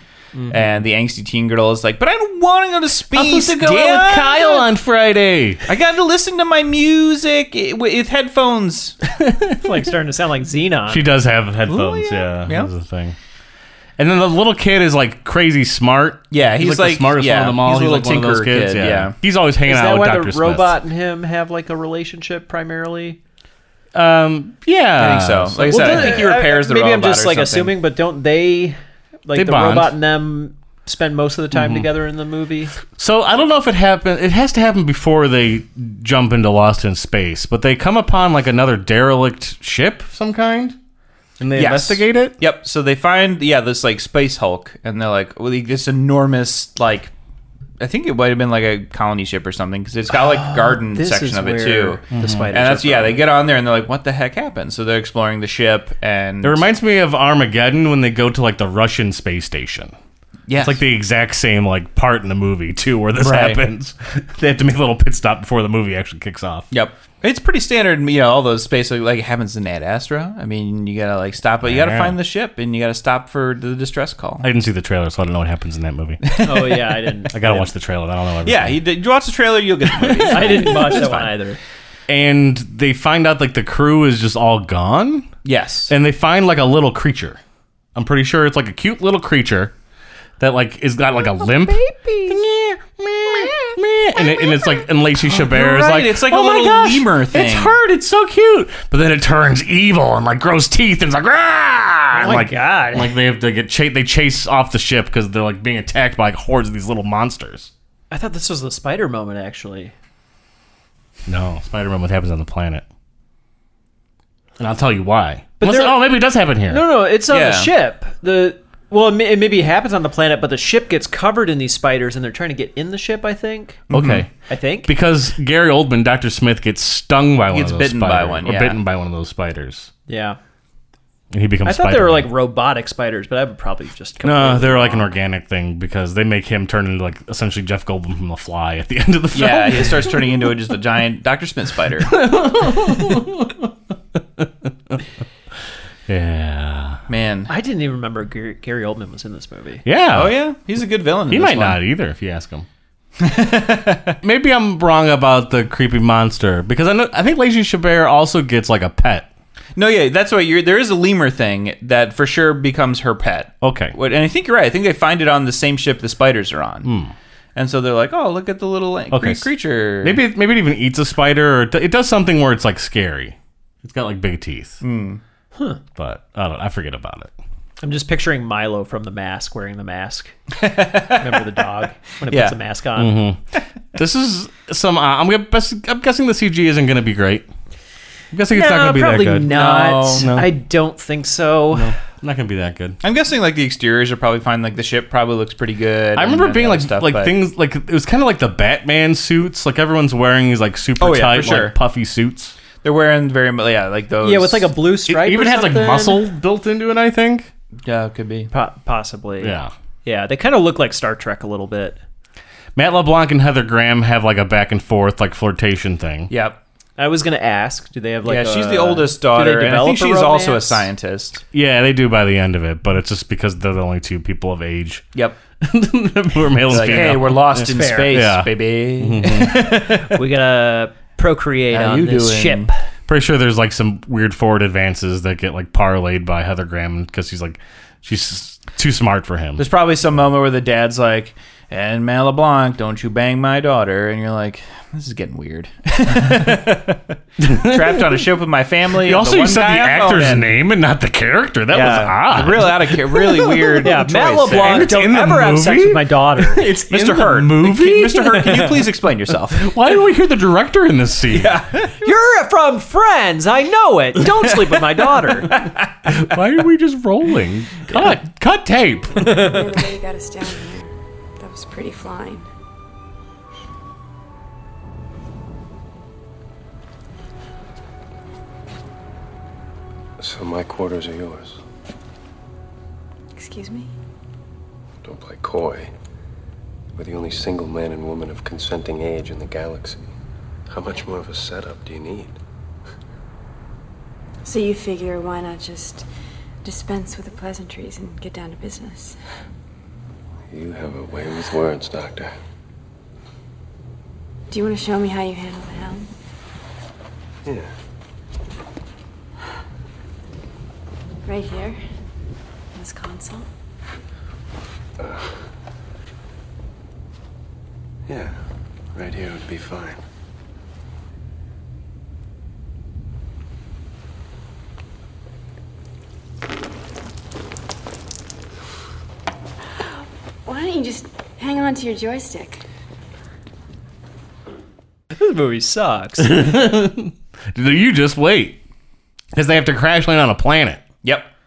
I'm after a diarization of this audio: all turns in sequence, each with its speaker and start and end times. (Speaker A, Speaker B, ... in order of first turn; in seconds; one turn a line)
Speaker A: 0.5-4.7
Speaker B: 3.1-5.6
Speaker A: 5.7-9.0
Speaker B: 9.1-9.6
Speaker C: 9.6-12.2
Speaker B: 10.9-13.1
Speaker A: 12.4-12.7
Speaker B: 14.0-20.8
Speaker A: 16.3-19.1
Speaker C: 19.6-23.2
Speaker B: 23.9-26.2
Speaker A: 25.0-27.8
Speaker C: 25.6-32.7
Speaker B: 29.3-29.9
Speaker B: 31.5-31.9
Speaker B: 32.9-40.8
Speaker B: 41.4-42.4
Speaker A: 41.5-47.1
Speaker A: 47.8-56.6
Speaker C: 50.1-53.2
Speaker B: 52.1-52.5
Speaker B: 56.4-59.9
Speaker A: 60.5-60.8
Speaker B: 60.6-66.7
Speaker A: 63.2-63.6
Speaker A: 66.7-74.5
Speaker B: 71.6-72.2
Speaker B: 74.4-76.2
Speaker A: 76.2-77.6
Speaker C: 76.4-77.6
Speaker B: 77.3-78.8
Speaker A: 78.5-81.3
Speaker B: 80.0-80.6
Speaker C: 80.3-81.6
Speaker B: 82.1-85.3
Speaker A: 85.4-85.9
Speaker B: 85.9-87.4
Speaker B: 88.0-89.7
Speaker B: 90.4-107.7
Speaker C: 91.4-92.4
Speaker C: 93.4-93.7
Speaker C: 94.2-94.8
Speaker A: 95.2-97.8
Speaker C: 102.1-103.2
Speaker C: 108.1-109.9
Speaker B: 111.3-112.8
Speaker B: 114.6-116.8
Speaker C: 115.6-116.1
Speaker C: 116.7-123.8
Speaker A: 117.3-117.7
Speaker A: 123.9-124.2
Speaker B: 123.9-124.3
Speaker C: 124.5-124.9
Speaker B: 124.8-129.9
Speaker A: 127.5-128.8
Speaker C: 130.1-130.4
Speaker B: 131.3-132.3
Speaker C: 131.6-135.1
Speaker B: 134.2-140.2
Speaker A: 139.3-142.2
Speaker B: 142.1-143.7
Speaker B: 144.4-145.0
Speaker B: 146.1-147.0
Speaker A: 147.1-147.5
Speaker C: 147.5-149.8
Speaker B: 149.8-150.4
Speaker A: 150.1-151.8
Speaker B: 151.3-152.7
Speaker A: 153.2-154.2
Speaker B: 154.2-159.3
Speaker A: 159.8-166.9
Speaker B: 163.6-163.9
Speaker B: 166.8-167.1
Speaker A: 167.6-170.2
Speaker B: 169.1-169.5
Speaker B: 170.0-174.8
Speaker A: 174.8-175.2
Speaker B: 175.9-177.3
Speaker C: 177.8-180.3
Speaker A: 180.6-181.4
Speaker C: 181.2-183.2
Speaker A: 182.3-182.6
Speaker B: 183.0-183.4
Speaker B: 183.9-187.5
Speaker B: 188.3-189.6
Speaker C: 188.5-191.9
Speaker A: 189.5-190.3
Speaker B: 190.2-190.5
Speaker B: 191.7-193.0
Speaker A: 193.0-197.3
Speaker B: 196.1-202.6
Speaker A: 201.0-201.8
Speaker A: 202.8-204.7
Speaker C: 204.2-206.3
Speaker B: 205.1-207.5
Speaker A: 207.8-208.5
Speaker C: 208.5-212.0
Speaker B: 209.4-209.7
Speaker B: 212.8-216.3
Speaker A: 216.3-216.6
Speaker C: 217.0-220.9
Speaker A: 218.2-221.4
Speaker B: 221.5-225.0
Speaker B: 225.6-229.7
Speaker A: 226.7-230.2
Speaker C: 226.8-228.2
Speaker C: 230.1-232.7
Speaker A: 231.7-232.7
Speaker B: 233.1-239.7
Speaker A: 239.6-250.5
Speaker B: 247.4-248.2
Speaker B: 249.0-253.9
Speaker A: 251.7-254.9
Speaker C: 253.8-256.7
Speaker B: 254.5-256.0
Speaker A: 256.6-259.7
Speaker B: 256.6-258.5
Speaker B: 259.5-261.6
Speaker A: 261.3-262.1
Speaker C: 262.0-265.6
Speaker A: 264.6-265.9
Speaker B: 266.1-269.3
Speaker C: 269.1-269.6
Speaker D: 269.3-272.4
Speaker E: 280.2-281.6
Speaker D: 283.4-283.9
Speaker E: 285.0-285.9
Speaker E: 286.9-290.1
Speaker E: 290.7-292.4
Speaker D: 294.4-296.1
Speaker D: 296.6-299.1
Speaker E: 300.5-302.3
Speaker D: 304.5-306.1
Speaker D: 311.2-311.8
Speaker D: 312.7-313.4
Speaker E: 318.1-318.3
Speaker E: 318.9-320.0
Speaker D: 329.8-332.6
Speaker C: 335.1-336.4
Speaker B: 336.2-338.6
Speaker B: 339.4-340.8
Speaker A: 341.0-341.3